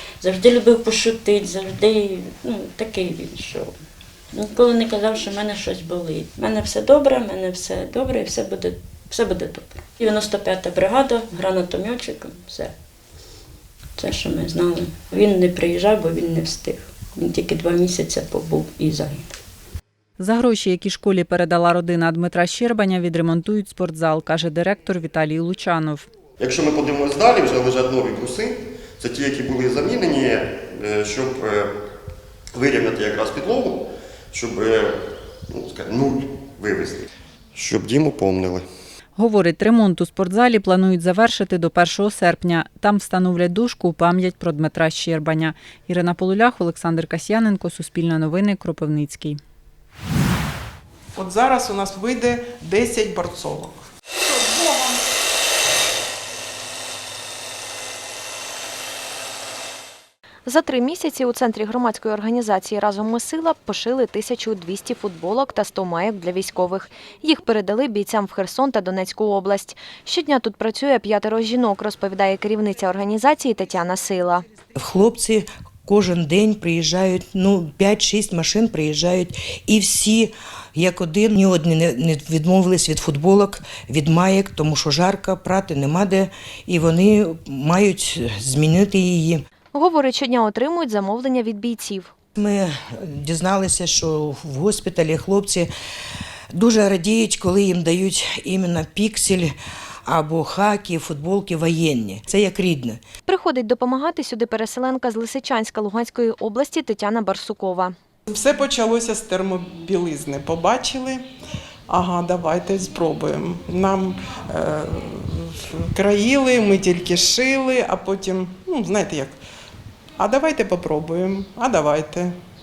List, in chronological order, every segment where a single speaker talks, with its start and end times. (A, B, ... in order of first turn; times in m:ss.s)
0:00.2-0:03.7 A
0:04.3-0:12.7 A
0:14.0-0:19.4 A
0:20.2-0:26.1 B
0:26.4-0:31.7 C
0:32.5-0:35.0 C
0:35.5-0:37.0 C
0:37.6-0:38.6 C
0:39.2-0:49.4 B
0:51.2-0:53.8 D
1:00.4-1:14.4 E
1:14.8-1:29.4 F
1:29.7-1:32.1 E
1:32.4-1:35.7 F
1:36.5-1:39.5 F
1:40.1-1:43.0 F
1:43.2-1:47.9 E
1:48.3-1:51.2 D
1:51.9-1:59.4 D
2:00.2-2:02.3 D